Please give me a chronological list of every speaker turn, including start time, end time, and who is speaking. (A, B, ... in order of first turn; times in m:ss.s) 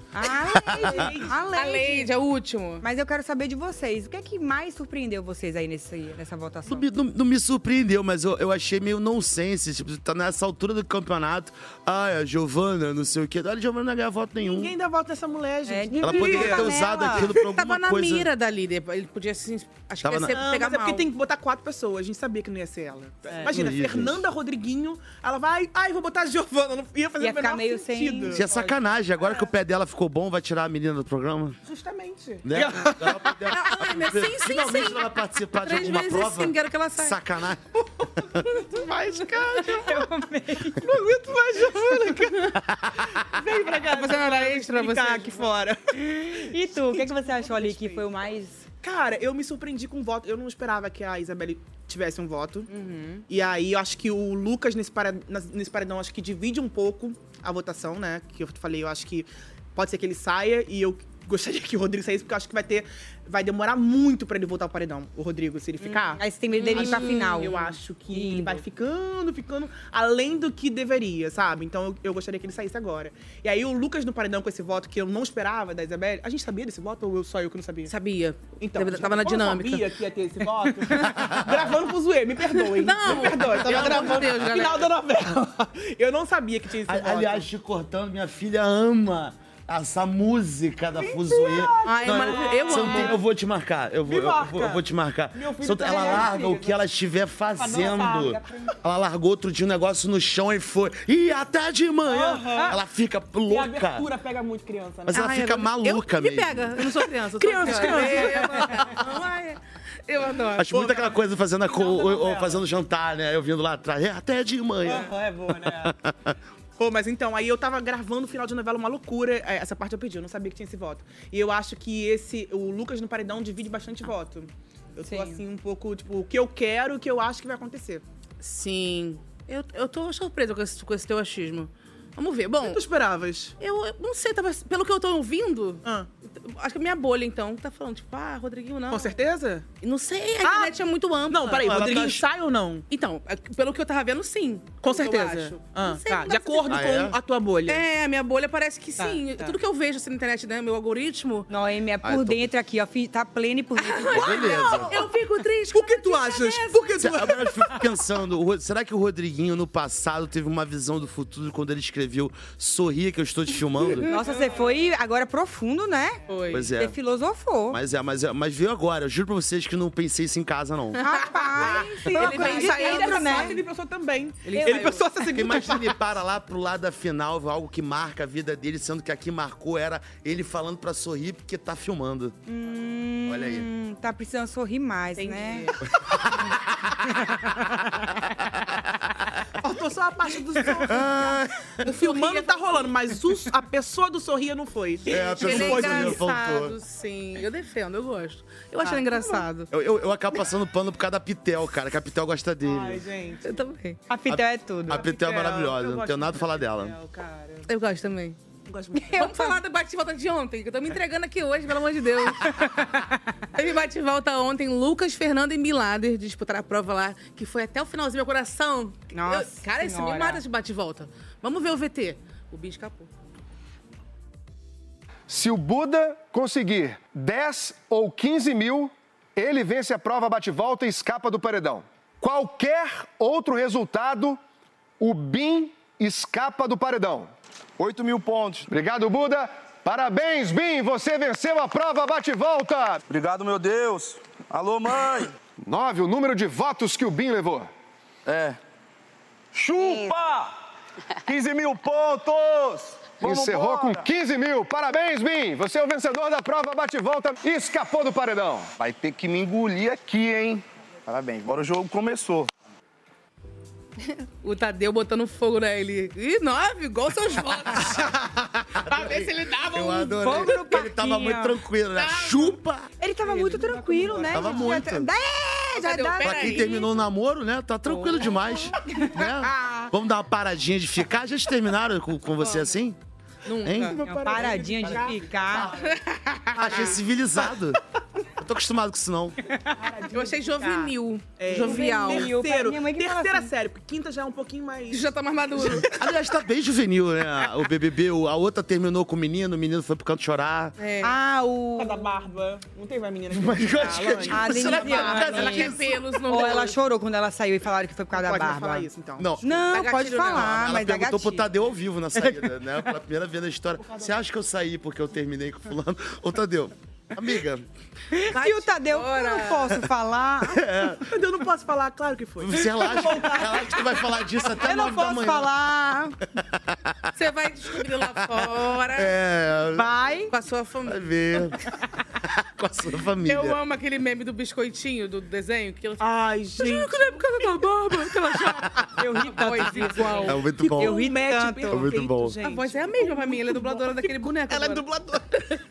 0:00.1-0:02.1 A
0:00.8-0:01.3 B
0:00.9-0:02.8 C
0:02.8-0:06.8 A
0:06.7-0:14.7 D
0:14.4-0:16.8 B
0:15.7-0:17.3 A
0:16.0-0:18.3 D
0:17.6-0:21.1 C
0:20.0-0:20.4 D
0:20.3-0:28.5 B
0:23.3-0:23.6 A
0:23.5-0:24.2 D
0:27.2-0:28.7 A
0:28.3-0:31.6 D
0:31.6-0:33.3 B
0:32.4-0:38.4 D
0:33.5-0:37.2 C
0:38.7-0:40.1 B
0:39.8-0:40.8 A
0:40.7-0:42.5 B
0:43.3-0:48.0 B
0:43.8-0:45.5 C
0:45.9-0:48.6 A
0:48.8-0:52.7 B
0:52.7-0:53.2 A
0:53.3-1:17.9 B
1:05.8-1:08.6 A
1:06.6-1:07.6 C
1:17.9-1:19.9 C
1:18.6-1:27.5 B
1:21.2-1:21.6 D
1:22.5-1:24.9 C
1:23.8-1:24.2 D
1:26.8-1:44.1 D
1:31.0-1:33.2 B
1:31.8-1:33.2 C
1:34.0-1:36.8 B
1:35.9-1:36.3 A
1:37.6-1:38.4 B
1:38.3-1:38.7 A
1:42.0-1:42.8 B
1:43.5-1:45.3 B
1:45.1-1:46.7 D
1:45.1-1:50.9 C
1:47.1-1:49.0 B
1:50.6-1:56.2 D
1:50.7-1:52.6 B
1:54.8-1:55.9 B
1:56.8-2:08.0 B
2:05.0-2:05.4 A
2:08.4-2:12.8 C
2:12.6-2:13.5 B
2:13.6-2:19.2 C
2:18.9-2:19.6 B
2:19.8-2:22.2 C
2:20.4-2:20.7 B
2:21.3-2:22.8 B
2:22.9-2:26.8 C
2:24.8-2:27.8 B
2:26.7-2:27.2 D
2:27.6-2:31.5 C
2:29.0-2:29.6 B
2:31.5-2:34.8 A
2:32.0-2:32.5 D
2:33.8-2:37.1 C
2:34.1-2:34.9 D
2:35.7-2:37.5 B
2:37.0-2:44.1 D
2:44.1-2:46.2 A
2:46.3-2:46.7 C
2:46.5-2:46.9 D
2:46.8-2:47.8 A
2:47.7-2:51.0 D
2:51.0-2:53.6 C
2:51.0-2:53.6 A
2:51.6-2:55.9 B
2:54.4-2:55.1 C
2:55.2-3:02.3 D
3:02.5-3:05.7 A
3:03.3-3:03.6 D
3:05.2-3:05.8 C
3:06.1-3:06.5 D
3:09.6-3:11.2 B
3:10.8-3:11.7 D
3:11.8-3:12.9 C
3:11.8-3:16.2 B
3:15.1-3:19.7 C
3:15.1-3:16.8 D
3:18.8-3:19.4 B
3:19.7-3:23.0 D
3:22.6-3:23.6 B
3:23.4-3:24.0 C
3:24.1-3:25.0 A
3:24.3-3:26.9 D
3:24.9-3:27.7 B
3:27.7-3:28.4 C
3:28.6-3:29.3 B
3:29.0-3:29.5 A
3:29.1-3:32.7 C
3:32.5-3:33.1 A
3:33.5-3:43.1 C
3:39.1-3:40.4 A
3:45.3-3:54.4 E
3:55.0-3:57.3 E
3:57.8-3:58.7 F
3:58.7-4:03.0 E
4:03.1-4:05.3 F
4:05.6-4:07.7 E
4:08.2-4:08.6 F
4:09.5-4:10.6 F
4:11.2-4:14.0 F
4:13.2-4:18.7 E
4:18.8-4:22.5 F
4:24.4-4:28.2 C
4:27.8-4:32.9 D
4:28.9-4:30.5 C
4:30.2-4:31.5 A
4:32.0-4:32.6 C
4:33.0-4:36.8 A
4:33.2-4:34.8 B
4:34.3-4:35.1 D
4:35.8-4:36.9 C
4:36.2-4:43.0 D
4:37.9-4:38.7 A
4:42.4-4:42.7 C
4:43.4-4:44.0 C
4:43.6-4:44.0 D
4:44.0-4:45.7 B
4:44.0-4:45.7 A
4:44.9-4:45.7 D
4:45.7-4:47.0 C
4:46.6-4:47.8 D
4:46.6-4:46.9 B
4:48.4-4:49.4 D
4:49.8-4:55.0 B
4:50.1-4:52.3 C
4:51.5-4:53.5 A
4:54.9-4:55.9 C
4:55.6-4:56.0 B
4:56.0-5:00.7 D
5:00.8-5:01.1 C
5:01.0-5:02.0 A
5:01.8-5:05.5 B
5:03.3-5:05.8 D
5:04.3-5:05.7 A
5:04.5-5:06.8 C
5:06.3-5:08.9 A
5:08.1-5:09.3 B
5:09.2-5:09.6 D
5:09.4-5:11.5 A
5:09.7-5:10.5 C
5:10.2-5:17.6 D
5:13.8-5:14.2 B
5:18.1-5:20.6 A
5:18.3-5:19.8 C
5:20.5-5:21.0 D
5:21.0-5:23.9 B
5:22.4-5:25.5 D
5:24.6-5:26.2 A
5:26.5-5:26.9 D
5:27.2-5:29.1 C
5:28.9-5:29.9 D
5:29.7-5:30.3 A
5:30.3-5:31.5 C
5:30.9-5:31.6 D
5:32.6-5:33.6 D
5:33.2-5:40.4 C
5:36.0-5:37.0 B
5:39.0-5:41.9 A
5:40.2-5:41.1 D
5:40.6-5:45.2 B
5:41.7-5:42.4 D
5:42.4-5:45.2 C